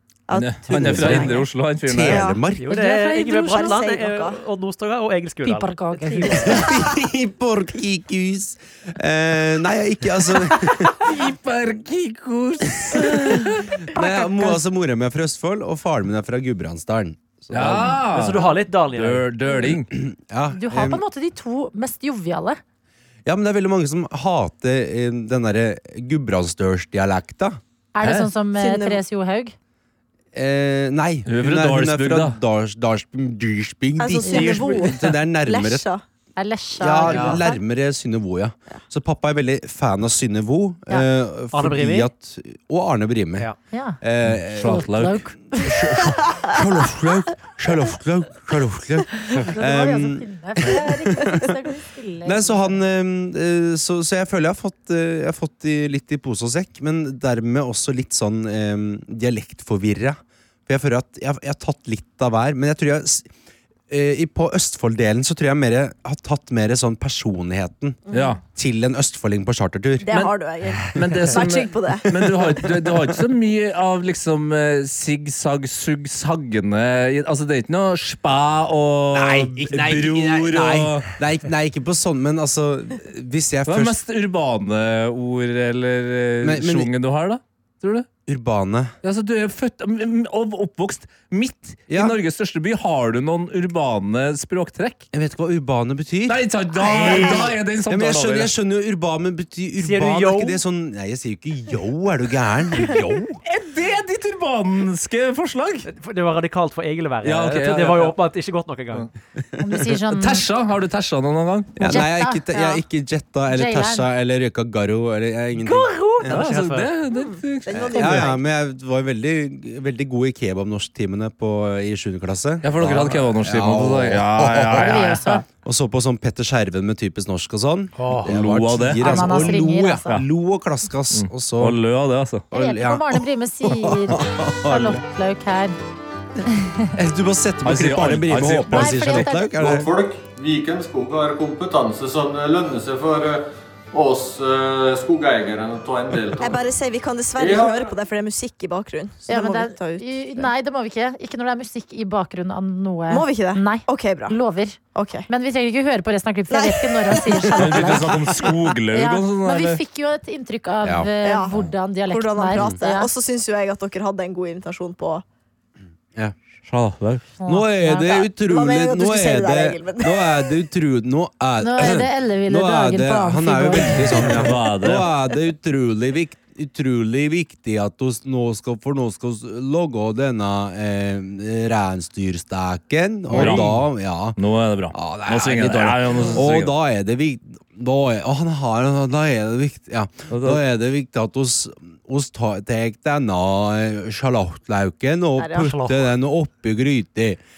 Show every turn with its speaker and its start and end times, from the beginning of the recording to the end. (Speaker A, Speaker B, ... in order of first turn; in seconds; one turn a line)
Speaker A: 0.3-1.4
Speaker B: 0.3-2.3
Speaker C: 0.7-2.7
Speaker A: 2.0-2.4
Speaker D: 2.5-6.6
Speaker E: 2.7-3.8
Speaker A: 3.5-4.4
Speaker E: 5.4-6.7
Speaker A: 6.3-6.6
Speaker C: 6.3-11.1
Speaker B: 11.0-13.7
Speaker C: 12.8-18.0
Speaker E: 13.9-14.6
Speaker B: 17.5-19.9
Speaker D: 18.1-19.3
Speaker C: 19.6-21.0
Speaker E: 20.5-22.6
Speaker C: 23.2-27.6
Speaker E: 27.9-29.5
Speaker B: 28.0-28.3
Speaker A: 28.6-29.0
Speaker C: 30.3-35.8
Speaker B: 31.2-32.4
Speaker A: 34.0-36.0
Speaker E: 34.3-34.5
Speaker E: 36.4-37.5
Speaker C: 36.8-43.5
Speaker D: 37.0-37.4
Speaker A: 37.2-37.5
Speaker D: 41.5-42.1
Speaker E: 43.7-44.0
Speaker C: 44.0-51.5
Speaker B: 44.2-46.1
Speaker E: 44.6-45.8
Speaker E: 49.3-52.8
Speaker C: 52.2-63.3
Speaker C: 63.9-68.0
Speaker A: 68.1-68.4
Speaker B: 68.1-68.4
Speaker C: 68.5-70.3
Speaker A: 70.0-72.1
Speaker B: 70.9-81.1
Speaker C: 72.1-73.2
Speaker C: 79.1-84.0
Speaker B: 83.7-88.1
Speaker C: 86.4-86.9
Speaker C: 88.2-88.9
Speaker B: 89.0-95.0
Speaker C: 91.9-92.2
Speaker C: 95.1-103.4
Speaker B: 96.3-98.5
Speaker A: 96.8-97.5
Speaker D: 99.8-100.6
Speaker B: 103.4-105.9
Speaker D: 105.9-109.1
Speaker B: 107.2-108.2
Speaker E: 109.6-110.4
Speaker B: 110.1-112.0
Speaker C: 111.8-116.4
Speaker E: 111.8-112.4
Speaker E: 113.5-114.0
Speaker D: 115.7-117.0
Speaker B: 116.3-118.1
Speaker A: 117.1-118.4
Speaker C: 117.7-131.8
Speaker B: 122.6-125.4
Speaker E: 124.7-125.4
Speaker D: 128.0-128.3
Speaker B: 128.2-129.5
Speaker E: 129.0-130.2
Speaker B: 131.1-132.4
Speaker C: 132.5-135.0
Speaker E: 132.5-135.8
Speaker E: 136.5-136.9
Speaker C: 136.9-139.9
Speaker B: 137.6-139.3
Speaker E: 138.7-139.5
Speaker F: 139.6-143.4
Speaker F: 143.9-146.5
Speaker A: 146.3-150.5
Speaker E: 149.3-158.2
Speaker A: 153.1-154.4
Speaker A: 154.9-155.3
Speaker A: 156.5-158.0
Speaker B: 157.5-159.8
Speaker E: 158.9-163.1
Speaker C: 160.8-161.1
Speaker A: 161.2-165.2
Speaker B: 166.7-167.3
Speaker E: 167.4-168.2
Speaker C: 167.4-184.4
Speaker A: 168.4-170.5
Speaker E: 171.6-174.4
Speaker B: 174.1-175.1
Speaker B: 183.3-183.8
Speaker B: 184.3-186.7
Speaker C: 184.9-197.4
Speaker B: 190.3-190.6
Speaker A: 195.4-195.7
Speaker D: 195.6-196.1